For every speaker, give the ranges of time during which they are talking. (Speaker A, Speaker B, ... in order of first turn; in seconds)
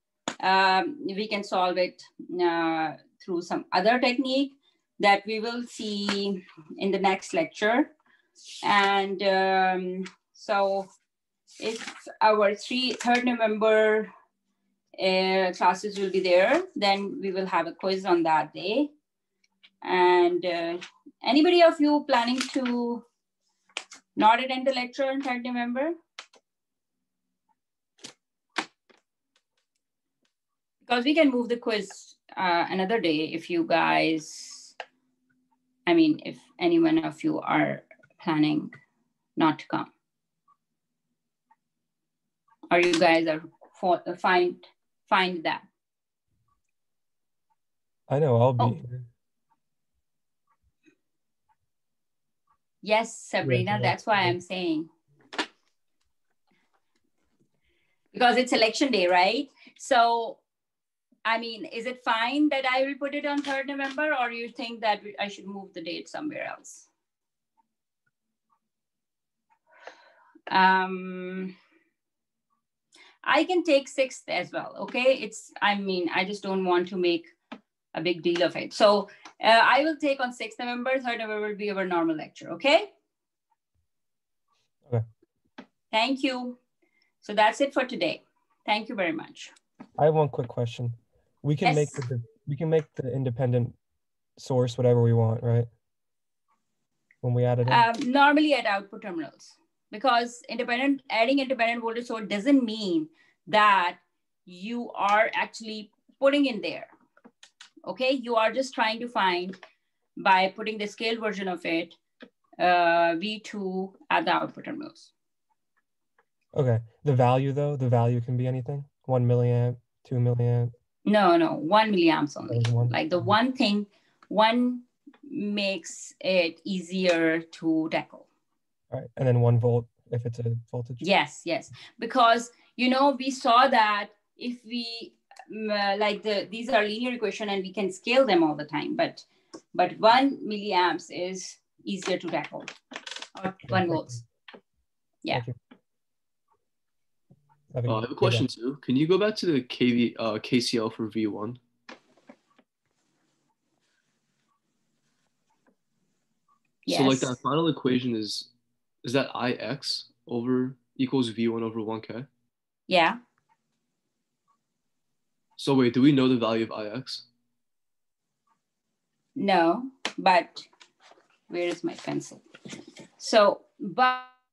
Speaker A: 0.4-7.9, 8.6-10.9, 11.6-14.1, 15.0-18.9, 19.8-23.0, 24.2-25.9, 30.8-34.8, 35.9-38.7, 39.4-39.9, 42.7-45.7, 52.8-54.9, 58.1-60.4, 61.3-66.9, 70.5-71.5, 73.2-77.3, 77.9-82.9, 85.9-86.6, 87.2-89.5, 91.6-92.0, 97.7-106.9, 107.9-109.6, 110.2-112.0, 112.6-115.1, 121.1-128.3, 131.0-142.7, 143.4-144.2, 156.9-157.4, 162.9-163.2, 169.4-170.7, 171.5-172.4, 173.2-174.3
Speaker B: 48.1-49.1, 53.4-54.3, 90.0-93.8, 94.4-95.7, 97.2-97.8, 116.5-120.7, 122.5-123.0, 128.9-131.1, 143.7-144.2, 147.7-148.5
Speaker C: 147.9-151.6, 156.9-158.5, 159.0-162.3, 165.6-167.3